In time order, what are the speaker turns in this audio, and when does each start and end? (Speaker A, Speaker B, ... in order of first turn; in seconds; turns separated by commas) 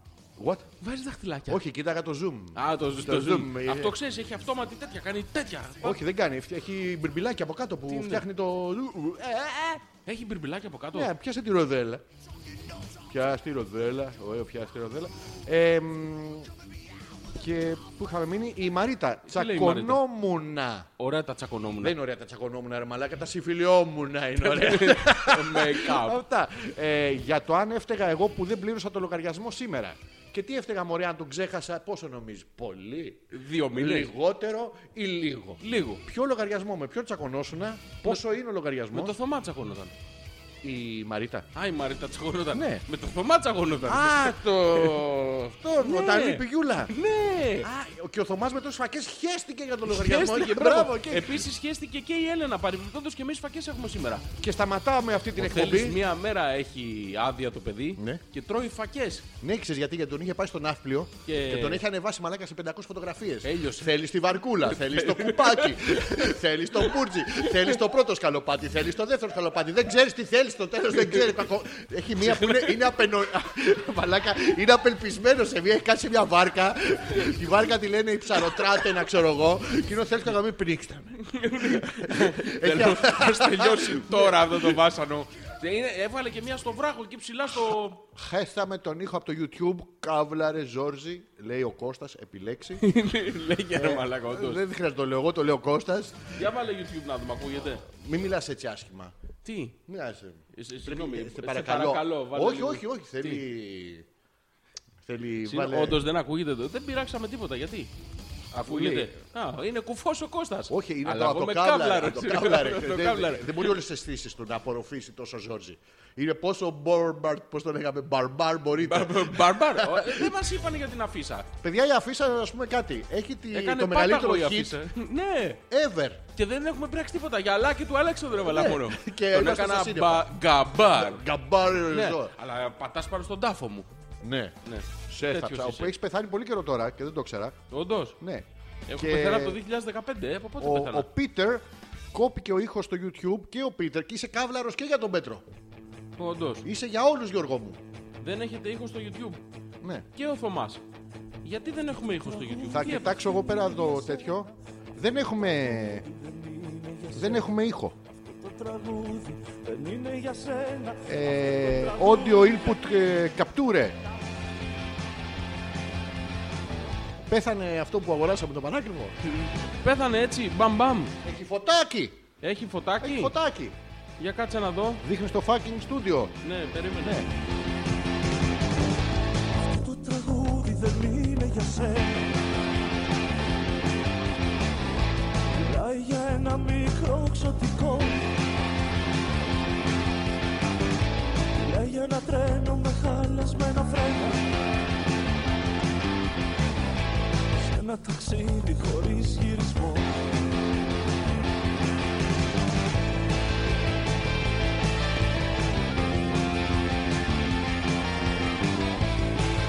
Speaker A: 0.4-0.7, Speaker B: 0.8-1.6, Speaker A: 1.5-4.0, Speaker B: 2.6-6.0, Speaker A: 5.8-9.8, Speaker B: 7.9-8.2, Speaker B: 10.1-11.1, Speaker A: 10.9-12.0, Speaker A: 13.1-16.5, Speaker A: 17.4-20.9, Speaker B: 19.3-20.0, Speaker B: 21.0-21.9, Speaker A: 21.8-39.2, Speaker B: 24.4-26.2, Speaker B: 33.3-34.1, Speaker B: 35.6-36.0, Speaker B: 38.9-39.9, Speaker A: 40.6-41.5, Speaker B: 41.5-45.2, Speaker A: 42.5-42.9, Speaker A: 43.9-46.9, Speaker B: 45.8-47.7, Speaker A: 47.6-51.5, Speaker B: 49.9-54.3, Speaker A: 54.4-56.0, Speaker B: 55.4-59.3, Speaker A: 58.0-58.2, Speaker A: 59.4-84.8, Speaker B: 61.3-61.8, Speaker B: 63.4-63.9, Speaker B: 64.6-66.9, Speaker B: 72.3-72.8, Speaker B: 81.2-88.0, Speaker A: 88.1-92.8, Speaker B: 92.8-94.6, Speaker A: 93.7-96.5, Speaker B: 96.4-97.8, Speaker A: 97.9-99.1, Speaker B: 99.4-99.8, Speaker A: 99.9-104.1, Speaker B: 100.5-103.4, Speaker A: 105.0-106.0, Speaker B: 105.4-107.9, Speaker A: 108.5-109.1, Speaker B: 108.6-113.8, Speaker A: 110.7-120.3, Speaker B: 118.8-121.5, Speaker A: 121.6-124.8, Speaker B: 123.5-125.6, Speaker A: 125.7-126.2, Speaker B: 126.4-131.2, Speaker A: 128.4-130.3, Speaker A: 130.9-132.3, Speaker B: 131.9-133.9, Speaker A: 134.2-134.6, Speaker B: 134.6-135.9, Speaker A: 135.1-137.6, Speaker B: 137.7-138.2, Speaker A: 138.2-138.4, Speaker B: 138.9-141.1, Speaker A: 139.0-139.6, Speaker A: 140.6-145.4, Speaker B: 146.2-146.7, Speaker A: 146.6-147.8, Speaker B: 148.2-149.4, Speaker B: 150.1-150.8, Speaker B: 151.4-153.2, Speaker C: 152.2-154.5, Speaker A: 152.7-156.1, Speaker C: 156.1-157.5, Speaker A: 157.1-157.9, Speaker C: 158.2-162.8, Speaker A: 161.1-164.0, Speaker A: 167.2-169.2, Speaker B: 169.3-171.1, Speaker A: 171.2-172.2, Speaker B: 172.4-173.3, Speaker A: 173.0-173.8, Speaker B: 174.2-175.0, Speaker A: 175.0-176.3, Speaker B: 176.4-177.3, Speaker C: 179.6-182.4, Speaker C: 185.5-188.3, Speaker C: 191.6-194.4, Speaker C: 197.6-200.2